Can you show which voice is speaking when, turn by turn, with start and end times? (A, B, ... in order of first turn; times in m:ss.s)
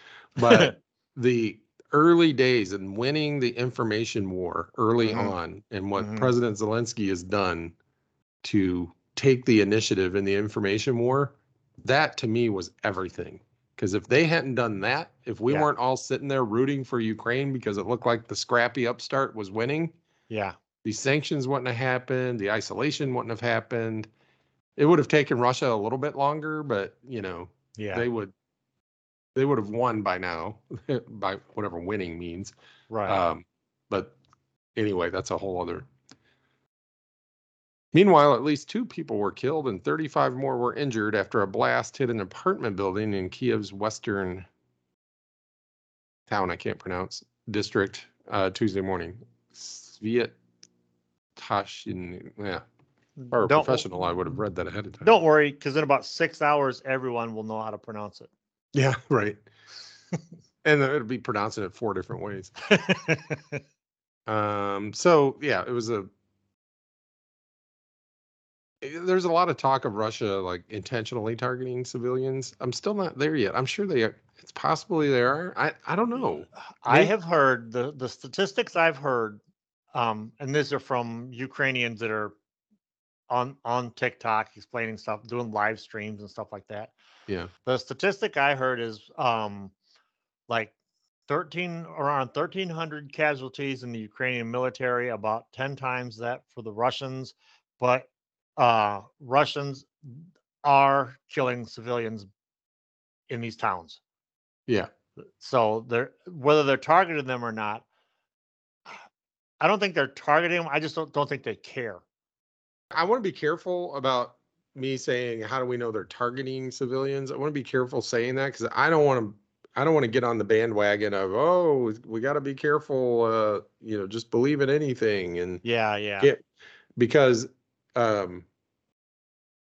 0:00.4-0:07.7 A
0:00.4-0:00.7 B
0:05.0-0:05.3 B
0:06.0-0:06.3 B
0:08.4-0:19.9 A
0:20.3-0:20.5 B
0:20.8-0:24.1 A
0:24.8-0:28.3 A
0:27.8-0:28.0 B
0:29.3-0:32.5 A
0:32.9-0:33.2 B
0:33.0-0:34.1 A
0:34.8-0:35.9 A
0:37.9-0:44.5 A
0:46.3-0:50.3 A
0:51.4-0:52.6 A
0:53.2-0:53.8 B
0:53.3-0:55.1 A
0:55.0-0:58.3 B
0:58.7-0:59.4 A
1:00.6-1:02.6 A
1:02.7-1:03.6 B
1:04.3-1:06.1 A
1:08.8-1:17.1 A
1:16.8-1:19.4 B
1:19.9-1:22.3 B
1:23.3-1:26.9 B
1:27.6-1:29.7 B
1:30.5-1:30.7 B
1:31.3-1:42.3 B
1:43.3-1:44.0 B
1:45.4-1:47.8 B
1:49.6-1:52.0 B
1:52.9-2:05.6 A
2:05.6-2:06.3 B
2:07.0-2:08.4 A